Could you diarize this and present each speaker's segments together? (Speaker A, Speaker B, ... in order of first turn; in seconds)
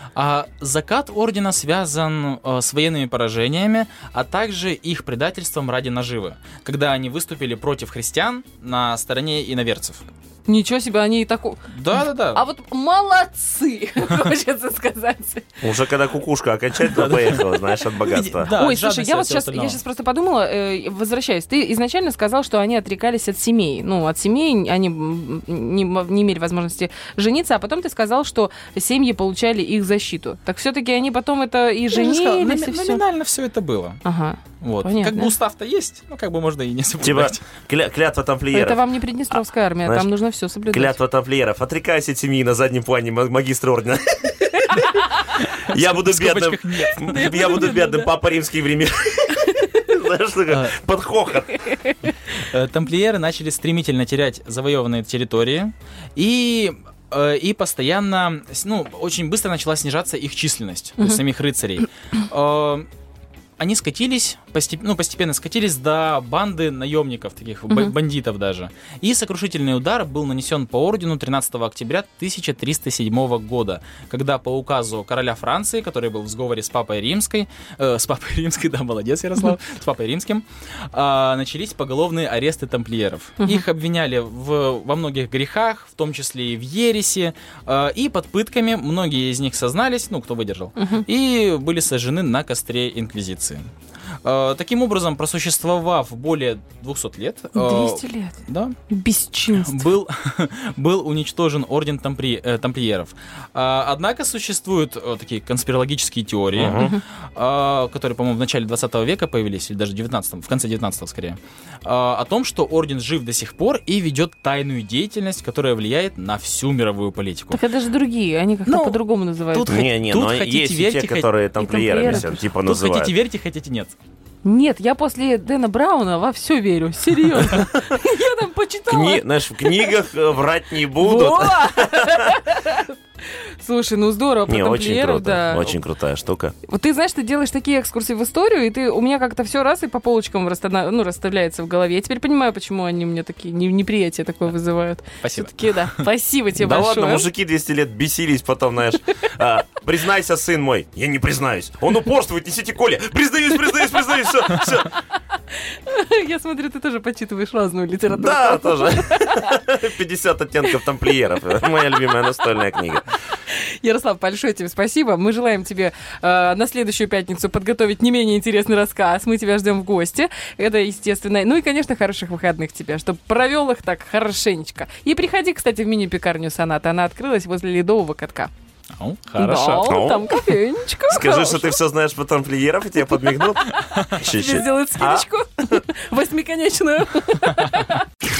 Speaker A: 0.1-10.1, 11.7-12.4, 16.9-19.8, 31.9-34.0, 34.6-37.4, 45.4-47.6, 50.5-50.7, 52.3-62.9, 63.6-93.7, 94.2-98.8, 99.5-117.6, 118.7-119.0, 119.5-121.3, 122.0-124.0, 145.2-146.1, 178.9-179.9, 183.7-184.1, 187.6-187.8
Speaker B: 10.5-15.5, 18.5-33.0, 34.0-35.3, 38.5-41.0, 44.6-45.4, 47.0-48.1, 83.4-83.7, 90.8-91.0, 97.5-98.4, 98.9-99.8, 106.8-107.0, 117.5-119.8, 121.6-122.4, 124.4-130.0, 131.0-135.8, 136.7-147.3, 155.7-159.6, 163.5-178.5, 179.4-181.8, 184.2-188.1
Speaker C: 15.6-18.6, 37.0-38.8, 39.9-40.1, 40.7-44.6, 45.7-51.7, 106.5-107.0, 119.7-123.1, 127.5-127.8, 128.9-132.3, 134.5-136.5, 146.6-154.9, 158.1-163.1, 179.9-180.3, 181.1-185.8